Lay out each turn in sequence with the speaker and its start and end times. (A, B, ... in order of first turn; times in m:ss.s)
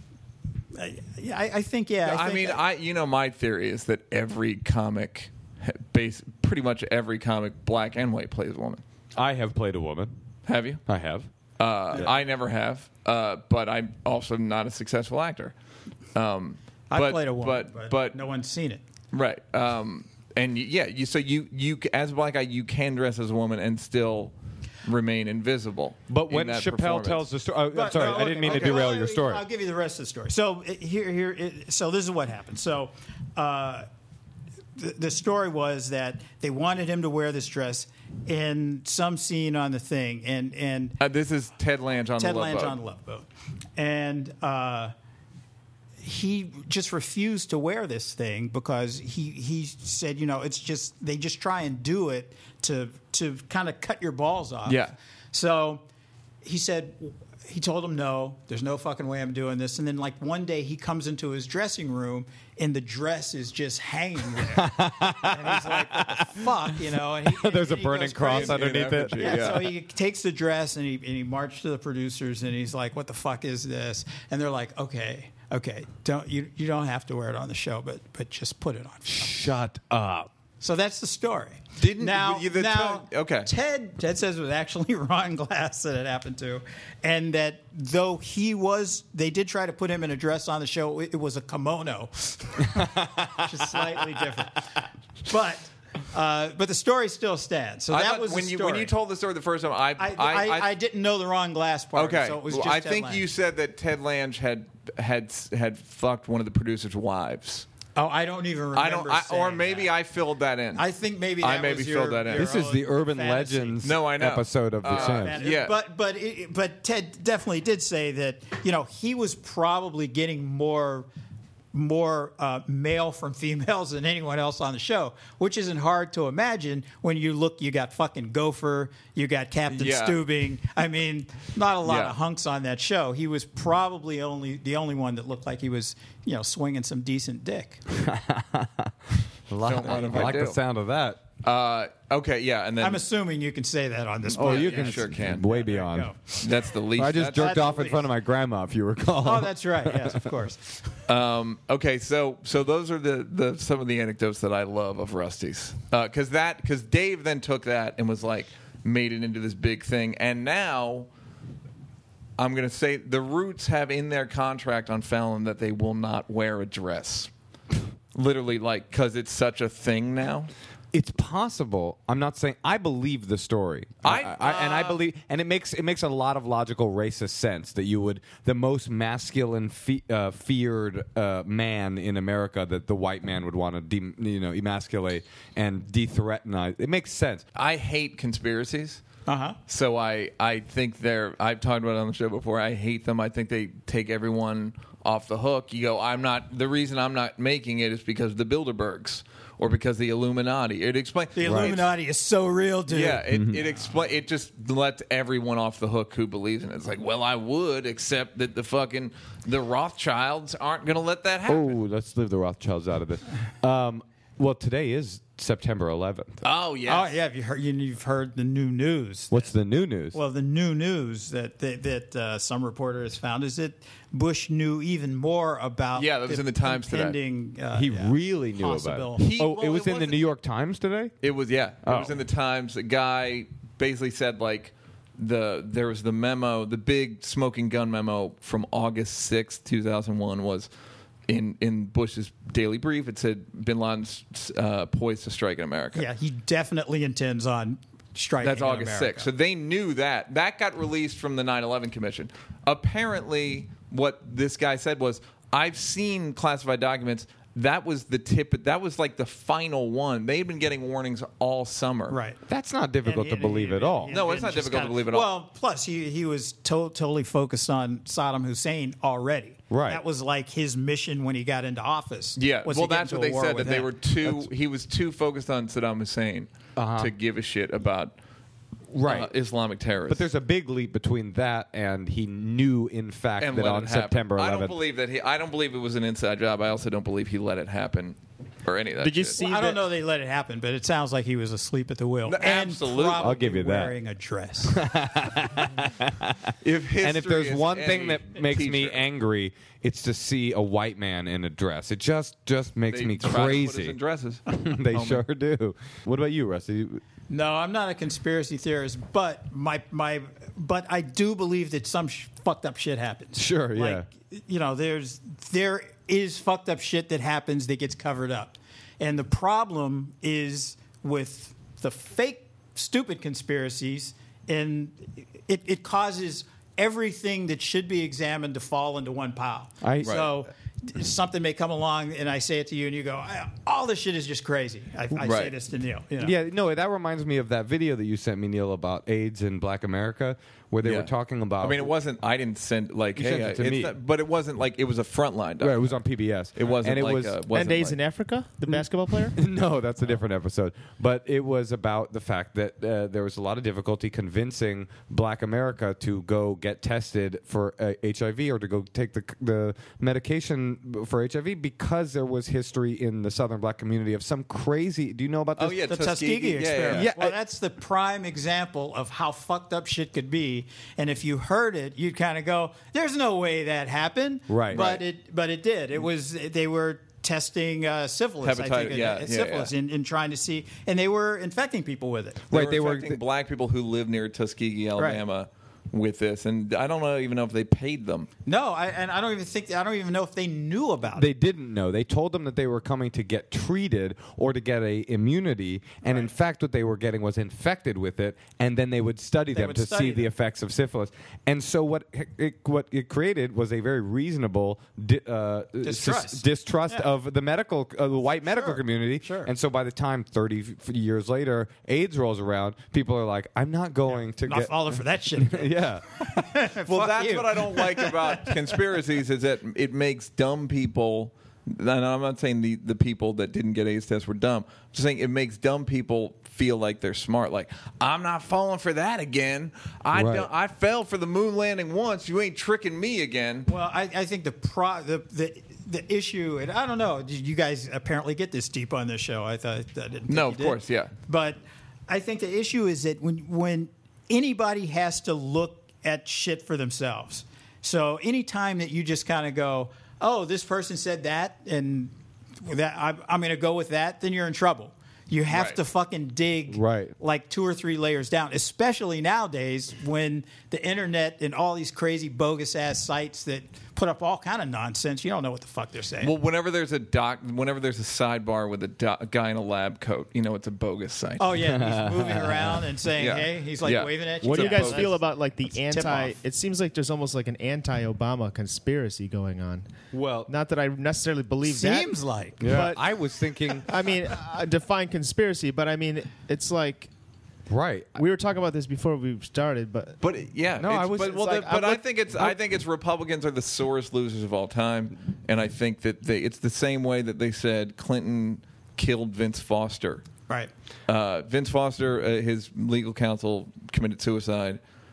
0:00.7-0:02.6 A
0:02.0-0:08.8 B
0:09.2-0:10.1 C
0:10.4-0:10.8 B
0:10.8-0:11.3 C
0:11.6-0:15.5 B
0:16.1-0:18.2 B
0:16.9-0:18.8 A
0:19.1-0:24.3 B
0:24.8-0:27.2 B
0:26.1-0:29.4 C
0:27.7-0:33.9 A
0:28.2-0:28.9 B
0:34.8-0:41.0 A
0:41.0-0:42.8 B
0:42.2-0:44.9 A
0:46.0-0:55.8 A
0:54.6-0:54.9 B
0:56.4-1:08.6 A
1:04.4-1:09.6 C
1:08.2-1:09.7 B
1:09.1-1:19.3 A
1:19.0-1:20.3 C
1:20.6-1:38.9 A
1:21.8-1:23.5 B
1:32.8-1:33.6 C
1:37.9-1:40.7 B
1:40.0-1:43.2 A
1:41.9-1:47.7 B
1:48.0-1:49.9 A
1:48.7-1:50.9 B
1:50.7-1:53.8 A
1:51.4-1:52.5 B
1:52.3-1:55.4 C
1:53.8-1:55.8 B
1:54.8-2:01.1 A
2:01.7-2:17.8 A
2:09.7-2:10.2 B
2:11.8-2:12.2 B
2:17.9-2:21.2 C
2:19.6-2:20.6 B
2:21.4-2:23.0 B
2:22.8-2:26.2 A
2:24.3-2:26.1 C
2:24.3-2:25.5 B
2:26.4-2:27.6 B
2:26.9-2:30.3 C
2:27.3-2:28.0 A
2:29.2-2:30.8 A
2:31.1-2:41.1 B
2:42.4-2:47.3 B
2:48.1-2:50.5 B
2:50.9-3:07.4 C
2:54.0-2:55.0 B
3:07.5-3:09.0 B
3:09.3-3:09.6 A
3:09.7-3:21.9 B
3:21.3-3:23.2 A
3:21.4-3:21.7 C
3:22.9-3:31.7 B
3:23.3-3:23.6 C
3:31.5-3:36.4 C
3:36.4-3:37.1 B
3:36.8-3:39.5 A
3:39.3-3:40.2 C
3:40.1-3:49.3 A
3:45.9-3:47.2 B
3:47.7-3:51.1 C
3:49.2-3:50.3 B
3:51.2-4:00.7 B
3:51.8-3:52.2 C
4:01.3-4:06.0 B
4:05.9-4:09.3 A
4:08.4-4:22.2 B
4:22.1-4:22.4 A
4:22.5-4:24.1 C
4:23.0-4:33.9 A
4:24.1-4:25.3 B
4:29.7-4:30.0 C
4:32.4-4:38.1 B
4:36.8-4:37.1 C
4:38.9-4:39.3 C
4:39.0-4:40.2 B
4:40.1-4:44.8 C
4:43.4-4:49.4 B
4:49.0-4:49.8 D
4:49.4-4:54.9 A
4:52.2-4:53.3 B
4:53.2-4:53.9 C
4:54.7-5:04.0 C
4:56.6-4:59.0 B
5:02.9-5:05.2 B
5:04.5-5:07.0 C
5:07.3-5:36.3 A
5:13.4-5:14.1 C
5:29.8-5:30.2 C
5:30.0-5:30.3 B
5:35.2-5:35.5 B
5:36.2-5:41.9 C
5:40.8-5:46.0 B
5:43.1-5:43.9 C
5:45.6-5:47.4 C
5:46.5-5:48.0 B
5:47.5-5:49.4 D
5:48.7-6:05.9 C
6:05.6-6:07.1 B
6:05.9-6:22.4 A
6:06.9-6:07.4 C
6:14.5-6:14.8 C
6:14.7-6:15.0 B
6:18.4-6:19.7 B
6:22.5-6:23.2 C
6:22.5-6:28.3 B
6:25.0-6:25.2 A
6:28.4-6:31.3 A
6:31.1-6:56.0 C
6:39.5-6:40.3 A
6:45.8-6:47.0 A
6:48.4-6:49.5 A
6:54.4-6:58.8 A
6:56.9-7:13.7 B
7:10.1-7:10.5 C
7:13.7-7:46.3 A
7:20.3-7:21.1 B
7:35.5-7:35.8 B
7:36.7-7:37.1 C
7:46.2-7:51.5 B
7:51.4-7:56.3 A
7:51.6-7:52.8 C
7:53.2-7:55.1 B
7:54.4-7:59.9 D
8:00.1-8:00.5 C
8:00.5-8:03.0 D
8:01.6-8:02.7 A
8:02.6-8:03.9 C
8:03.8-8:07.1 D
8:07.7-8:08.2 C
8:08.1-8:10.2 D
8:10.2-8:20.2 B
8:10.8-8:12.6 C
8:11.5-8:11.8 D
8:21.1-8:24.8 B